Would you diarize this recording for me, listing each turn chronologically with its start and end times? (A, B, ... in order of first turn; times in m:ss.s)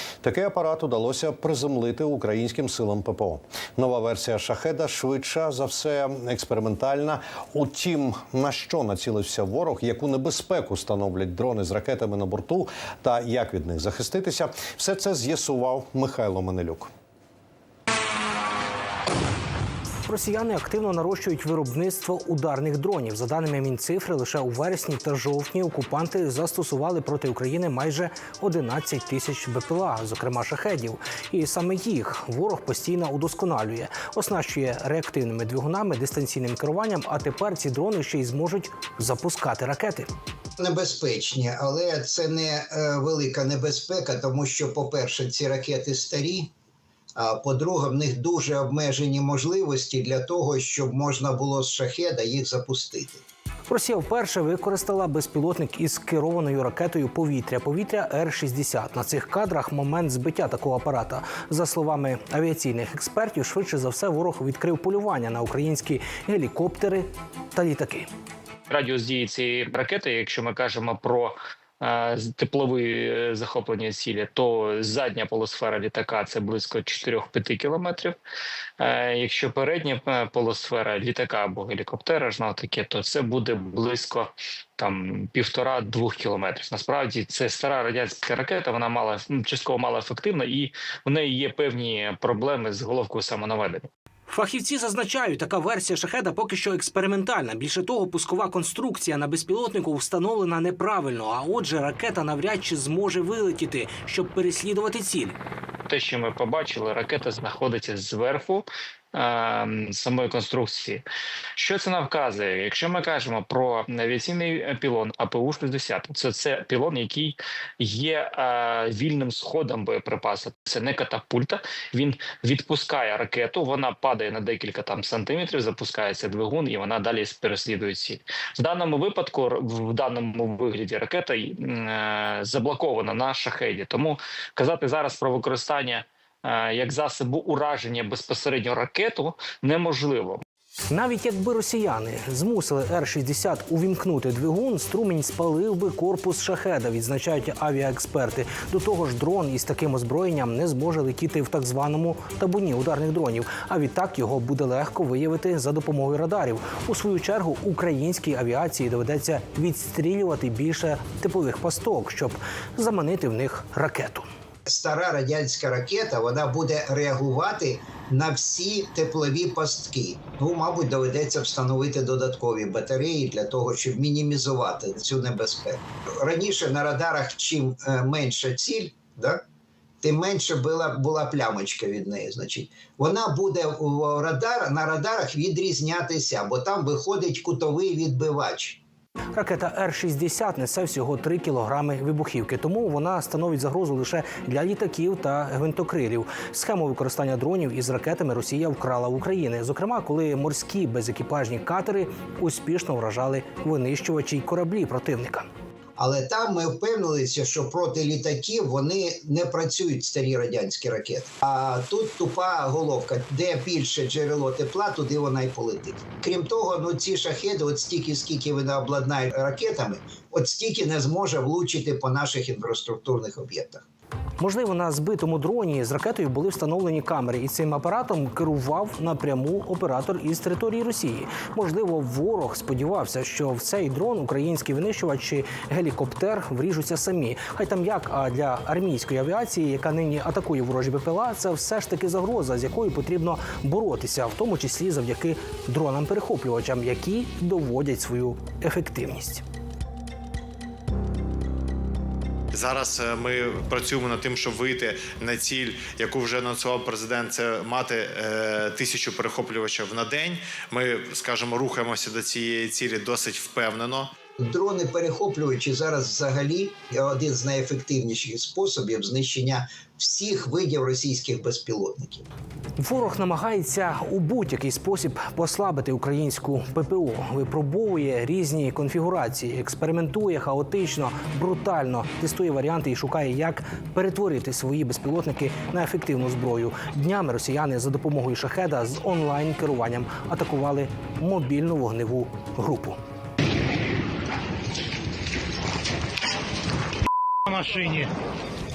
0:00.2-0:16.9 A
0:20.1-0:40.1 B
0:40.6-0:46.5 C
0:47.2-0:53.2 C
0:53.7-1:08.1 B
1:08.7-1:18.2 D
1:18.8-1:33.9 D
1:34.3-1:45.4 B
1:45.9-1:51.0 D
1:51.6-2:20.4 D
2:20.9-2:44.3 B
2:44.7-2:59.4 C
3:00.0-3:08.8 C
3:09.3-3:25.5 B
3:26.0-3:43.8 C
3:44.4-4:09.4 B
4:12.5-4:24.1 E
4:24.4-4:32.3 C
4:32.8-4:53.0 B
4:57.5-4:58.1 B